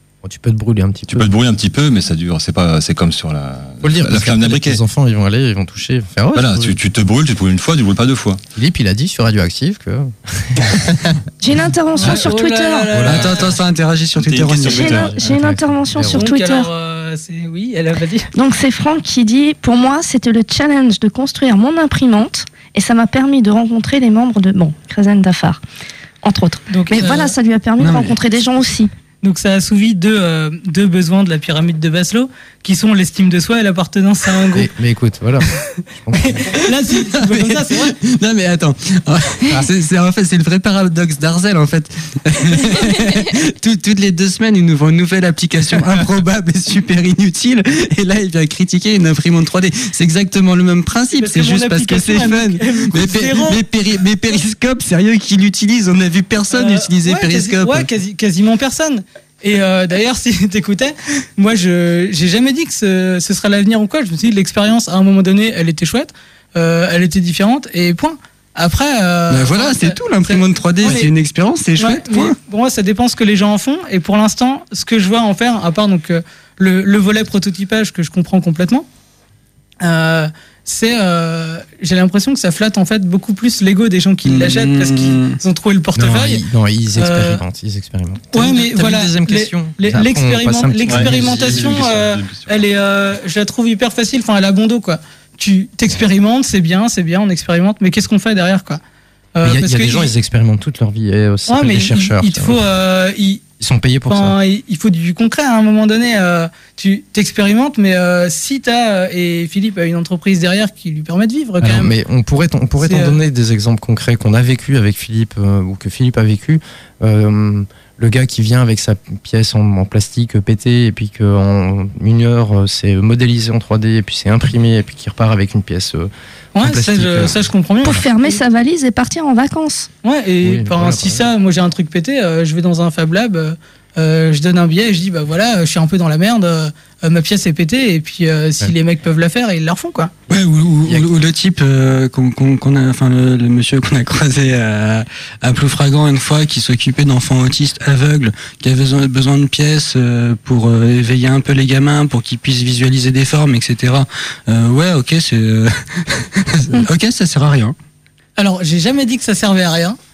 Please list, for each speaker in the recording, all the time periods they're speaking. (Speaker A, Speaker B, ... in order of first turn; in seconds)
Speaker A: 0.2-1.3, 3.8-6.8, 8.6-11.1, 12.9-13.5, 15.2-16.2, 34.5-36.6, 86.0-91.9, 99.4-102.6, 103.6-104.3, 111.6-128.0, 130.4-131.2, 140.8-141.1
Speaker B: 1.1-4.8, 6.3-8.4, 14.2-15.2, 90.9-92.5
Speaker C: 11.4-12.9, 14.6-16.7, 18.3-25.6, 26.2-28.9, 127.8-129.9
Speaker D: 11.9-13.5, 16.1-18.3, 26.7-27.3, 29.2-34.7, 36.2-37.9, 51.1-53.6, 56.5-71.1, 71.8-78.9, 79.8-86.4, 86.9-87.4, 88.3-98.8, 99.3-100.1, 101.5-103.4, 104.1-111.9, 112.8-113.2, 126.5-128.3, 130.0-140.1, 158.4-160.0
Speaker E: 13.0-15.2, 27.8-28.2, 36.9-57.9, 69.3-72.3, 84.2-85.4, 140.3-157.7